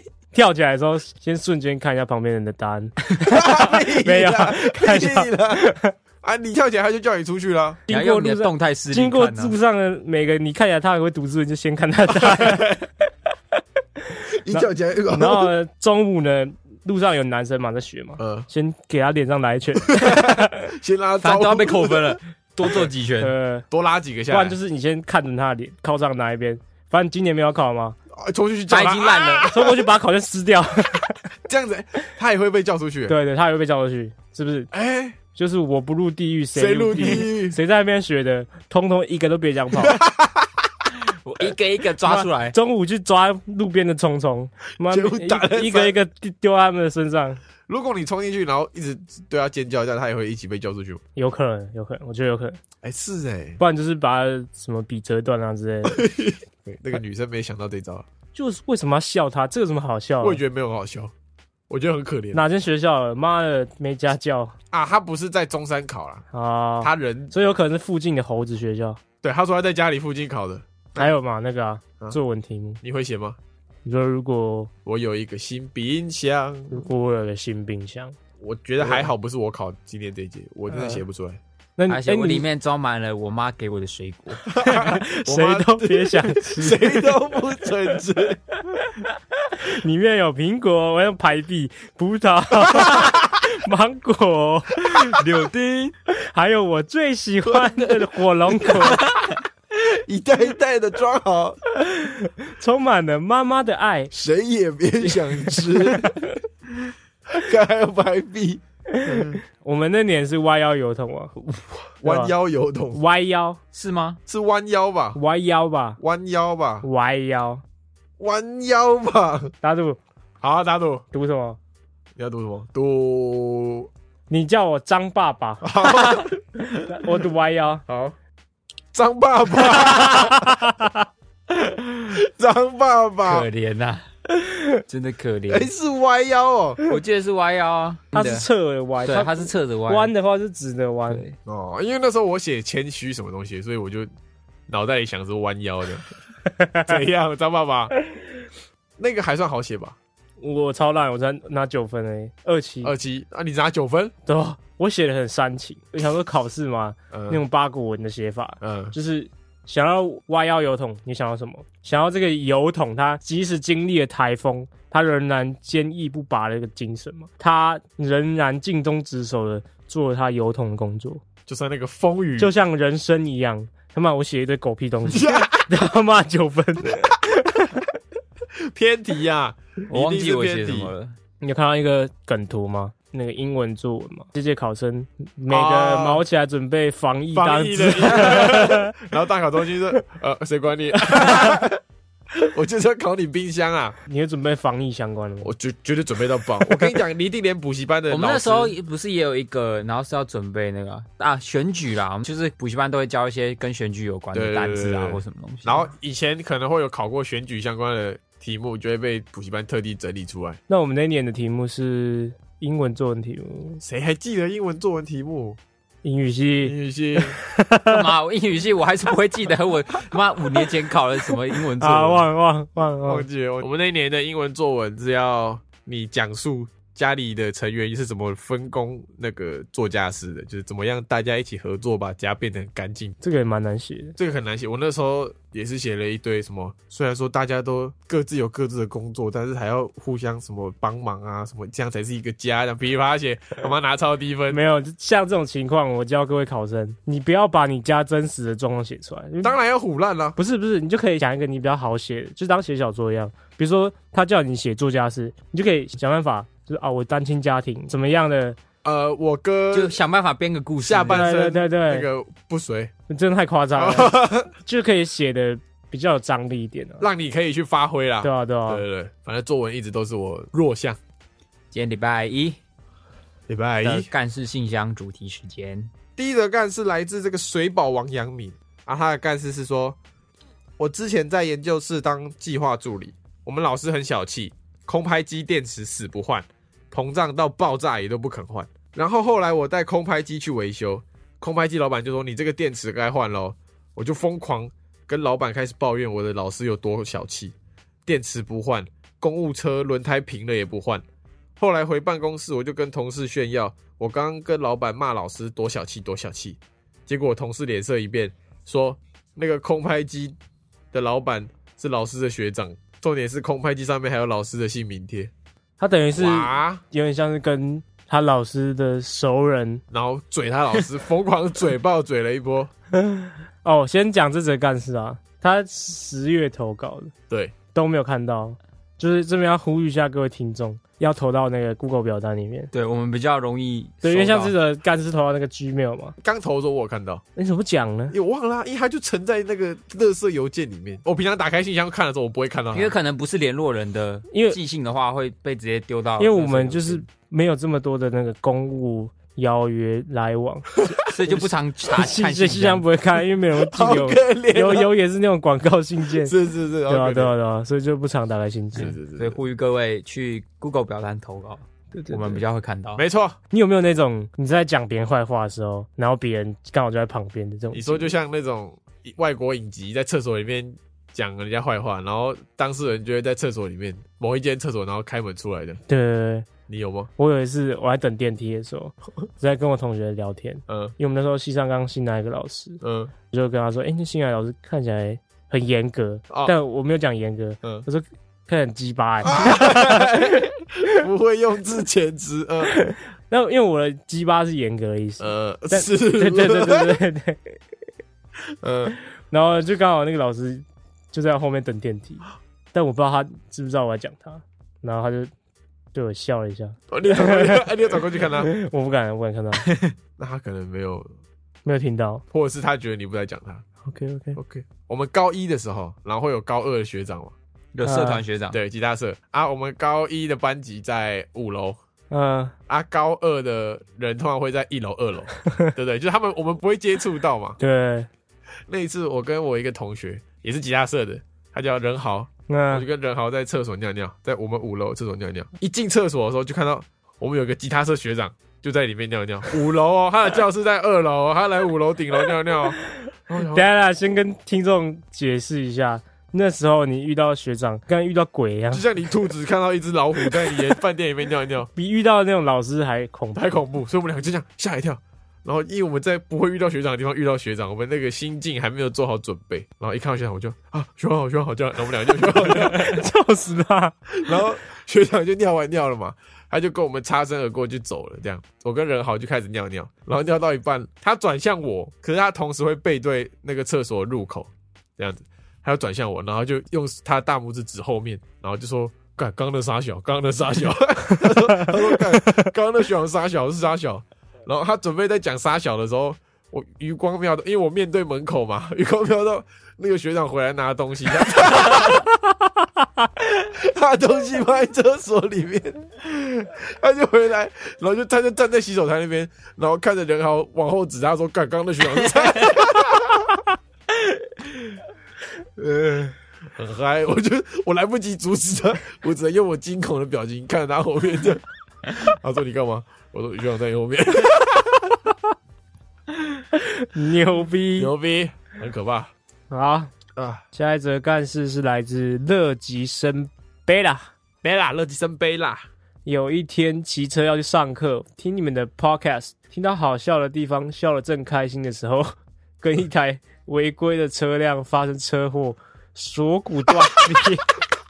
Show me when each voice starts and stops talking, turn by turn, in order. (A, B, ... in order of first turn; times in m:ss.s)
0:00.3-0:05.9 A
0:03.2-0:07.8 B
0:07.9-0:12.8 A
0:07.9-0:09.6 C
0:12.1-0:12.8 B
0:14.0-0:20.7 A
0:14.4-0:15.5 B
0:18.2-0:18.5 B
0:19.9-0:22.9 B
0:21.2-0:23.3 C
0:23.2-0:23.7 A
0:23.7-0:24.6 B
0:24.3-0:28.0 A
0:28.1-0:29.9 B
0:28.7-0:29.5 C
0:29.4-0:31.2 A
0:31.4-0:33.2 B
0:33.1-0:34.7 A
0:34.7-0:35.2 B
0:35.4-0:40.0 A
0:36.6-0:37.6 B
0:39.7-0:40.7 B
0:41.1-0:42.6 C
0:42.0-0:47.4 A
0:44.9-0:46.0 B
0:47.7-0:51.0 B
0:51.2-0:52.6 A
0:52.8-0:53.6 B
0:53.6-0:56.0 A
0:55.9-0:58.1 B
0:58.3-1:00.4 A
1:00.2-1:01.1 B
1:01.7-1:02.4 B
1:02.3-1:04.5 A
1:04.7-1:06.2 B
1:06.3-1:09.0 A
1:06.8-1:07.3 B
1:09.2-1:11.1 B
1:11.0-1:12.8 A
1:12.8-1:13.4 B
1:13.8-1:14.7 A
1:14.8-1:16.9 B
1:16.7-1:18.2 A
1:18.4-1:21.4 B
1:18.8-1:19.1 A
1:20.7-1:21.0 A
1:21.8-1:22.4 A
1:21.9-1:24.5 C
1:24.5-1:27.3 A
1:24.5-1:28.4 B
1:28.6-1:35.2 A
1:32.7-1:33.2 B
1:35.1-1:35.9 C
1:36.1-1:39.1 A
1:37.4-1:39.0 B
1:39.7-1:41.6 B
1:41.7-1:44.1 A
1:44.1-1:46.2 B
1:45.0-1:46.3 A
1:47.3-1:49.4 B
1:49.0-1:51.3 A
1:51.4-1:53.0 B
1:52.0-1:52.3 A
1:53.0-1:53.6 A
1:53.7-1:54.2 C
1:54.3-1:55.2 B
1:55.2-1:56.0 A
1:56.0-1:56.9 B
1:56.8-1:57.6 A
1:58.2-1:59.5 B
1:59.6-2:00.0 A
2:00.4-2:01.0 B
2:01.1-2:01.6 A
2:02.2-2:03.9 B
2:04.3-2:07.8 A
2:05.6-2:06.4 B
2:07.9-2:08.2 B
2:08.9-2:10.7 B
2:09.8-2:11.0 A
2:11.5-2:13.5 B
2:13.2-2:14.0 C
2:14.9-2:15.7 C
2:15.5-2:16.8 B
2:16.9-2:18.5 C
2:18.1-2:21.2 A
2:19.0-2:20.1 C
2:21.1-2:21.4 C
2:21.5-2:24.1 B
2:24.7-2:26.1 B
2:26.8-2:27.9 B
2:29.0-2:30.0 B
2:30.4-2:32.9 A
2:32.8-2:34.1 B
2:34.3-2:51.2 A
2:37.1-2:37.4 B
2:38.6-2:38.9 B
2:51.5-2:52.5 B
2:52.4-2:57.9 A
2:55.1-2:55.7 B
2:58.6-3:00.9 B
2:59.9-3:01.1 C
3:01.4-3:09.0 A
3:05.5-3:06.2 B
3:07.3-3:11.8 B
3:12.4-3:14.0 B
3:14.1-3:15.5 A
3:15.4-3:18.8 B
3:18.1-3:25.9 C
3:24.3-3:30.6 B
3:30.7-3:33.8 A
3:33.8-3:35.6 B
3:36.0-3:38.0 A
3:36.6-3:37.4 B
3:37.9-3:42.2 C
3:41.8-3:43.3 A
3:43.0-3:53.2 B
3:53.2-3:54.2 A
3:54.2-4:04.6 B
4:04.5-4:09.6 A
4:09.4-4:10.4 B
4:10.4-4:18.6 A
4:18.8-4:20.0 B
4:19.7-4:21.3 C
4:20.8-4:22.9 B
4:21.1-4:22.1 A
4:23.1-4:27.1 A
4:23.8-4:24.5 B
4:27.0-4:31.0 B
4:28.2-4:28.8 A
4:31.7-4:32.6 C
4:33.5-4:34.1 B
4:33.8-4:35.9 C
4:36.2-4:40.0 B
4:40.8-4:57.6 B
4:58.1-5:01.0 B
5:01.6-5:10.4 B
5:10.9-5:15.3 B
5:15.8-5:19.8 A
5:16.2-5:16.8 B
5:19.9-5:22.7 B
5:23.0-5:27.1 A
5:27.7-5:32.7 A
5:32.7-5:34.5 C
5:34.0-5:36.2 A
5:36.2-5:37.2 B
5:37.4-5:38.2 A
5:38.1-5:42.9 B
5:42.7-5:47.0 C
5:44.3-5:44.6 A
5:46.2-5:56.3 A
5:51.1-5:52.8 C
5:53.6-5:54.9 B
5:56.2-5:57.3 B
5:56.9-5:59.0 A
5:58.8-5:59.4 B
5:59.1-6:03.0 C
6:01.9-6:02.4 A
6:03.0-6:03.4 B
6:03.5-6:08.1 A
6:07.7-6:15.8 B
6:15.9-6:16.5 A
6:16.7-6:17.1 B
6:17.2-6:30.4 A
6:20.7-6:21.0 B
6:22.8-6:23.1 B
6:29.2-6:32.7 B
6:32.7-6:37.6 A
6:35.2-6:37.0 B
6:38.6-6:39.0 B
6:39.3-6:45.3 A
6:45.9-6:47.7 A
6:46.9-6:48.5 B
6:48.4-6:49.6 A
6:49.6-6:49.9 C
6:50.2-6:51.1 B
6:51.6-6:52.2 A
6:52.3-6:53.6 B
6:53.8-6:54.4 A
6:54.4-6:57.4 B
6:57.7-6:58.6 C
6:57.8-6:58.2 A
6:58.5-7:01.8 B
7:02.1-7:02.5 A
7:02.7-7:07.6 B
7:05.5-7:05.7 A
7:07.6-7:08.1 A
7:08.7-7:22.8 B
7:12.5-7:12.9 A
7:23.3-7:23.7 B
7:23.5-7:28.9 A
7:28.7-7:31.7 B
7:31.8-7:33.5 A
7:33.4-7:43.0 B
7:42.3-7:44.0 A
7:44.1-8:12.1 B
8:01.5-8:01.7 A
8:13.3-8:23.5 B
8:25.6-8:35.1 B
8:36.5-8:37.9 A
8:37.8-8:39.1 B
8:39.5-8:39.9 A
8:40.2-8:40.4 B
8:40.5-8:44.1 A
8:44.4-8:45.6 B
8:46.0-8:57.5 A